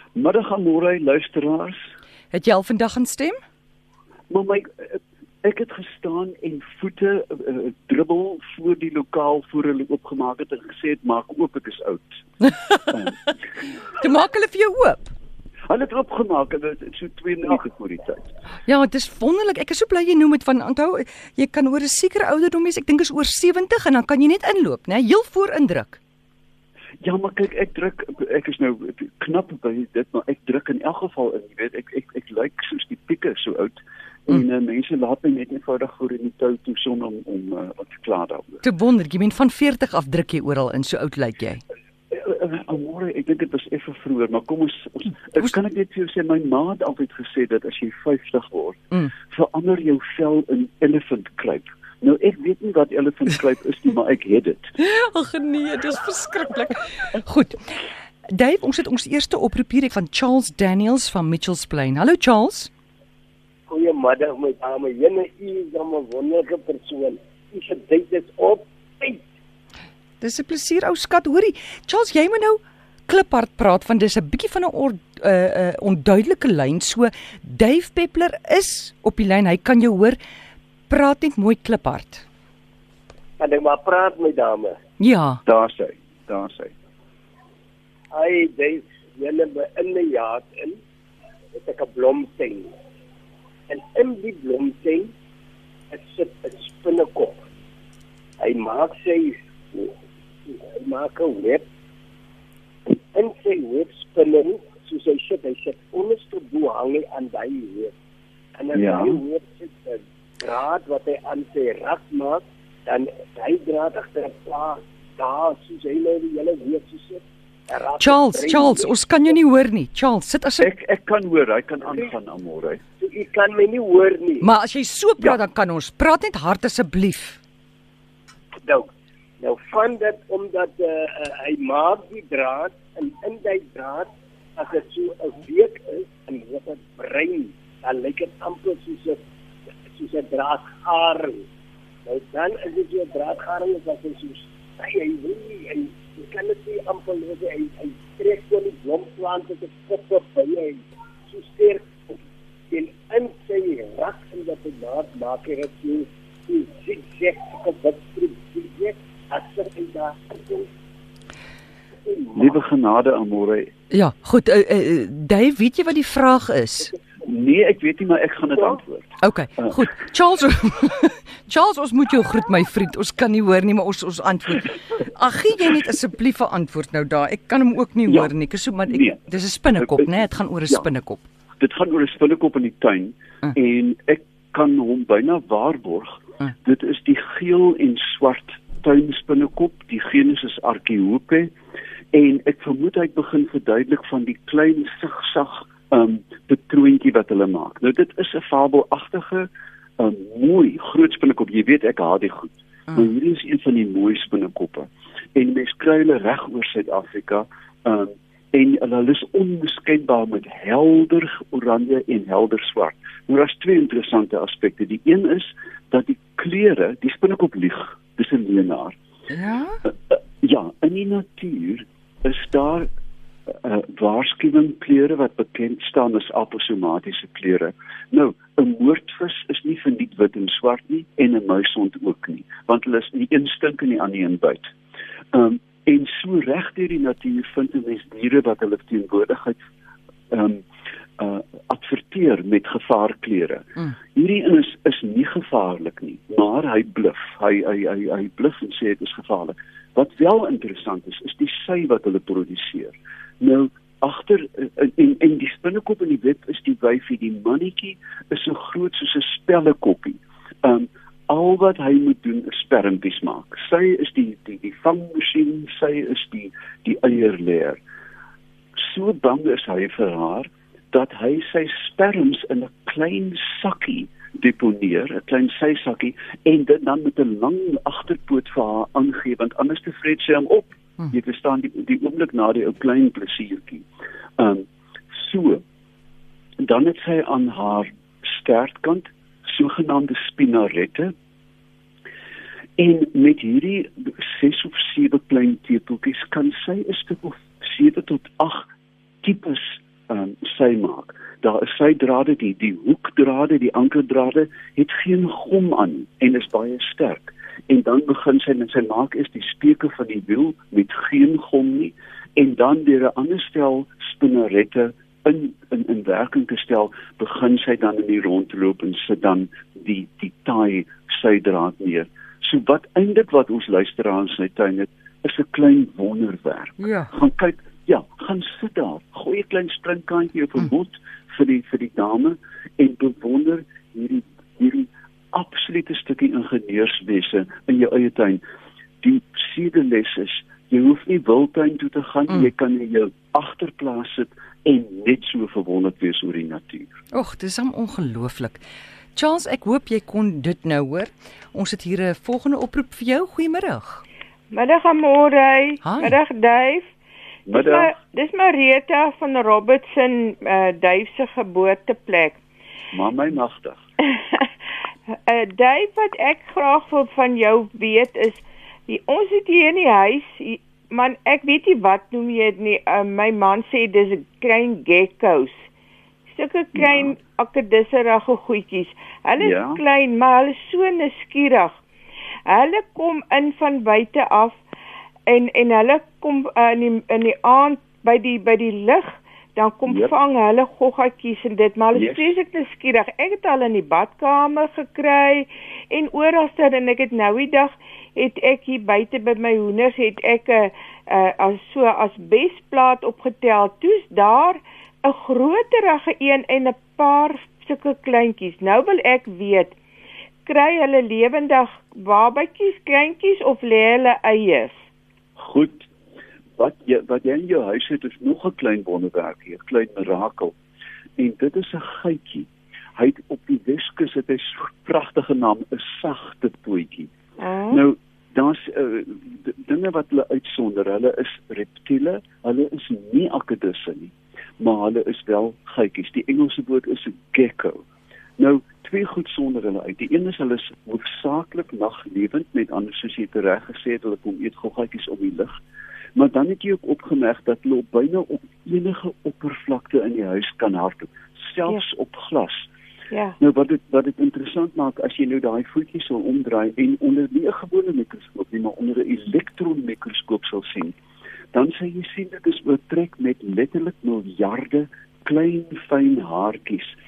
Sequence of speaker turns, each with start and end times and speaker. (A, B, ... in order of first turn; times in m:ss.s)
0:00.1-0:01.8 A
0:02.3-0:03.4 B
0:04.3-0:12.2 A
0:12.4-0:13.3 B
0:13.8-0:15.1 B
0:15.7-0:18.3 A
0:18.6-0:26.0 B
0:27.0-0:38.6 A
0:38.6-0:41.6 B
0:42.1-0:54.7 A
0:54.8-1:02.7 B
1:03.7-1:09.2 C
1:10.2-1:20.2 B
1:20.9-1:22.2 B
1:23.4-1:24.8 C
1:25.0-1:25.4 B
1:25.4-1:26.7 A
1:28.1-1:30.8 C
1:31.5-1:32.7 C
1:33.7-1:35.1 C
1:35.9-1:37.4 C
1:38.4-1:39.9 C
1:40.5-1:41.6 C
1:42.9-1:47.9 C
1:48.5-1:58.9 C
1:48.7-1:49.2 A
1:58.0-2:00.7 B
2:00.6-2:02.8 A
2:03.0-2:04.5 C
2:04.4-2:07.4 B
2:08.6-2:08.9 C
2:09.4-2:19.2 C
2:19.9-2:21.4 C
2:22.0-2:32.2 C
2:32.7-2:40.7 C
2:42.0-2:42.6 C
2:42.3-2:43.7 A
2:43.9-2:46.9 B
2:47.2-2:49.8 A
2:49.2-3:01.2 B
2:58.1-2:58.3 A
2:58.9-2:59.2 A
2:59.8-3:00.1 A
3:01.6-3:11.5 A
3:12.1-3:38.9 A
3:39.3-3:39.8 B
3:39.8-3:42.9 A
3:43.6-3:54.6 A
3:55.3-3:59.6 A
4:00.3-4:00.6 A
4:01.2-4:27.8 A
4:28.8-4:43.8 A
4:44.4-4:45.6 A
4:46.6-4:51.1 A
4:52.8-4:58.6 A
4:59.2-5:38.4 A
5:26.8-5:27.1 B
5:39.0-5:46.9 A
5:47.1-5:48.6 B
5:49.1-5:54.0 B
5:54.5-5:56.8 D
5:55.8-5:56.1 B
5:57.4-5:57.9 A
5:57.5-6:02.4 D
6:02.9-6:03.8 A
6:04.0-6:04.5 D
6:05.3-6:15.6 D
6:16.3-6:21.8 D
6:16.7-6:17.1 A
6:19.4-6:19.8 A
6:22.4-6:24.6 D
6:25.3-6:49.7 D
6:29.8-6:30.1 A
6:31.9-6:32.3 A
6:50.4-6:54.7 D
6:55.4-6:55.9 A
6:56.6-7:00.5 A
7:01.2-7:07.1 A
7:07.4-7:07.8 D
7:07.7-7:17.8 A
7:18.4-7:25.6 A
7:26.2-7:32.7 A
7:33.1-7:33.4 D
7:33.4-7:40.9 A
7:41.5-7:47.0 A